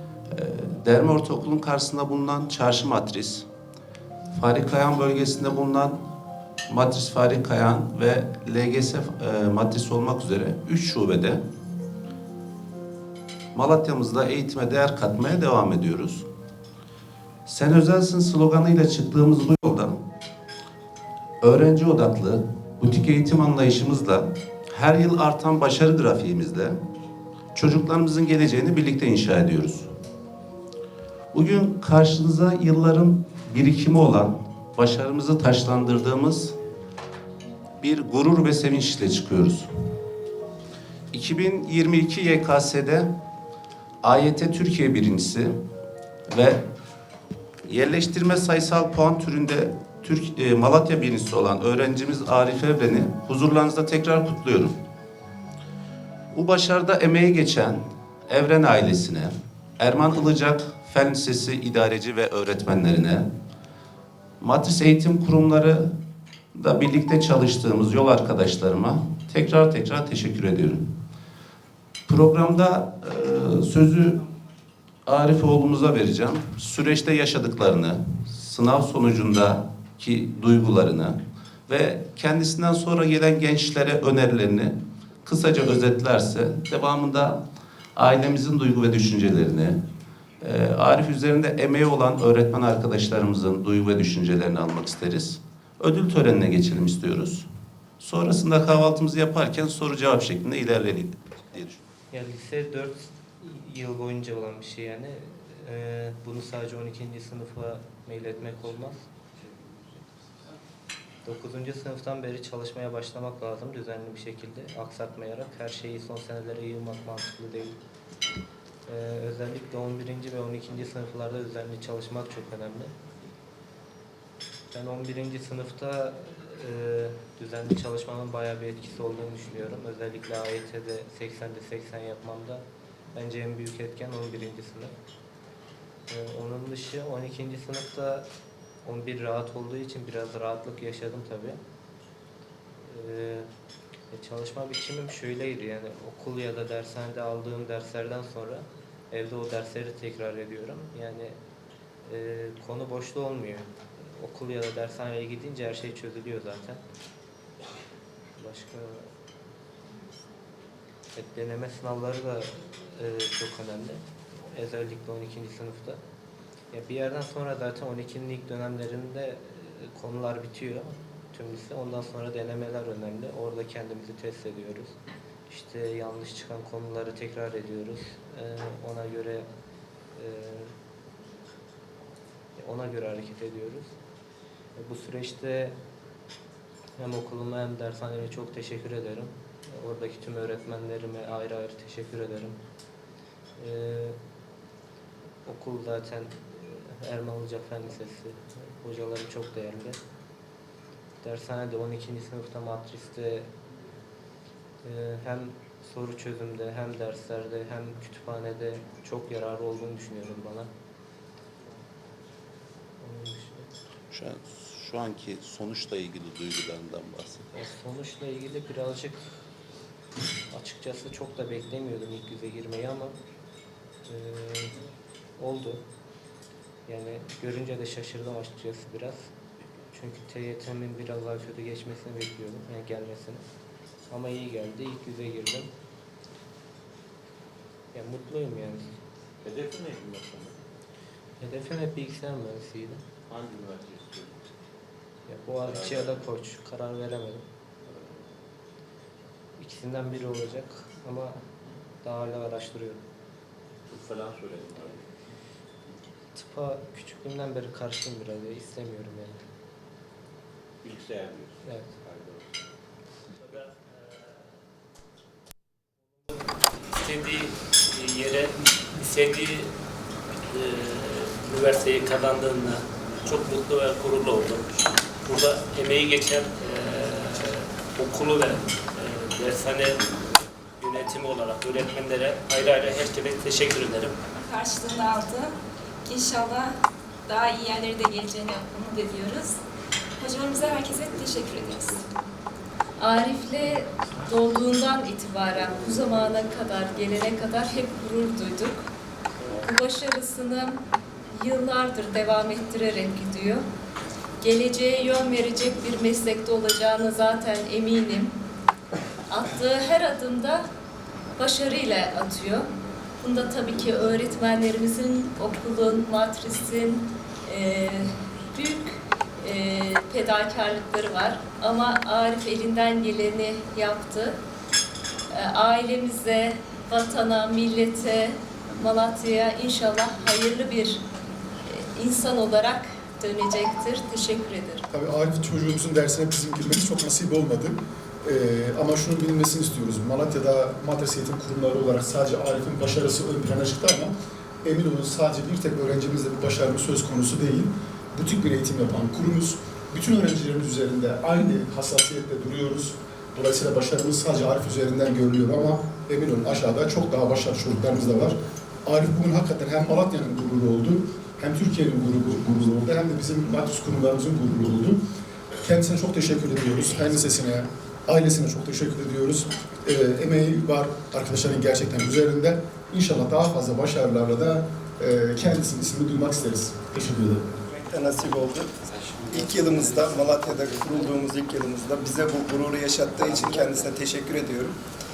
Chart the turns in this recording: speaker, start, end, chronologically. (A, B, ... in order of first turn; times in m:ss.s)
0:00.3-0:03.5 A
0:04.3-0:06.0 A
0:06.7-0:11.4 A
0:13.6-0:16.3 A
0:17.5-0:20.0 A
0:21.4-0:26.8 A
0:27.6-0:29.9 A
0:31.3-0:36.5 A
0:37.8-0:39.7 A
0:41.1-0:43.1 A
0:44.0-0:45.5 A
0:46.3-0:46.6 A
0:47.7-0:54.7 A
0:56.3-1:03.3 A
1:04.4-1:05.9 A
1:06.5-1:10.8 A
1:12.1-1:14.2 A
1:15.1-1:21.2 A
1:21.7-1:24.7 A
1:25.2-1:27.4 A
1:28.0-1:29.8 A
1:30.4-1:37.5 A
1:38.0-1:41.8 A
1:42.1-1:49.0 B
1:51.2-1:57.8 B
1:58.9-2:02.9 B
2:04.7-2:12.6 B
2:13.2-2:14.9 B
2:16.1-2:18.3 B
2:18.8-2:21.6 B
2:22.8-2:23.5 B
2:24.1-2:31.4 B
2:32.1-2:36.8 B
2:38.4-2:39.1 B
2:41.2-2:46.0 B
2:46.7-2:55.0 B
2:55.5-2:59.5 B
3:00.2-3:00.7 B
3:02.6-3:03.9 B
3:04.8-3:05.8 B
3:07.0-3:12.6 B
3:13.6-3:14.2 B
3:15.4-3:20.0 B
3:21.2-3:23.5 B
3:24.8-3:30.7 B
3:33.0-3:33.7 B
3:34.1-3:37.4 A
3:37.5-3:39.4 B
3:40.5-3:43.1 B
3:44.1-3:44.7 B
3:45.4-3:45.8 B
3:46.9-3:49.3 B
3:49.9-3:53.4 B
3:54.1-3:55.7 B
3:57.9-3:58.9 B
3:59.4-4:00.6 C
4:01.4-4:03.0 B
4:03.3-4:04.4 C
4:05.3-4:07.4 B
4:05.6-4:06.2 C
4:09.6-4:11.4 B
4:12.0-4:13.0 B
4:13.9-4:15.0 C
4:16.4-4:19.4 B
4:20.8-4:22.7 C
4:26.9-4:29.7 D
4:30.5-4:34.6 D
4:35.2-4:40.0 D
4:40.8-4:44.2 D
4:44.4-4:46.8 E
4:47.3-4:49.6 E
4:50.2-4:52.0 E
4:53.0-4:58.8 F
4:59.6-5:00.8 F
5:01.3-5:03.6 F
5:04.4-5:08.4 F
5:09.3-5:10.6 F
5:11.4-5:12.7 F
5:13.2-5:24.4 F
5:25.3-5:31.0 F
5:31.7-5:34.8 F
5:34.9-5:44.1 G
5:44.6-6:05.0 G
6:05.6-6:17.4 G
6:17.8-6:18.7 H
6:19.2-6:24.8 H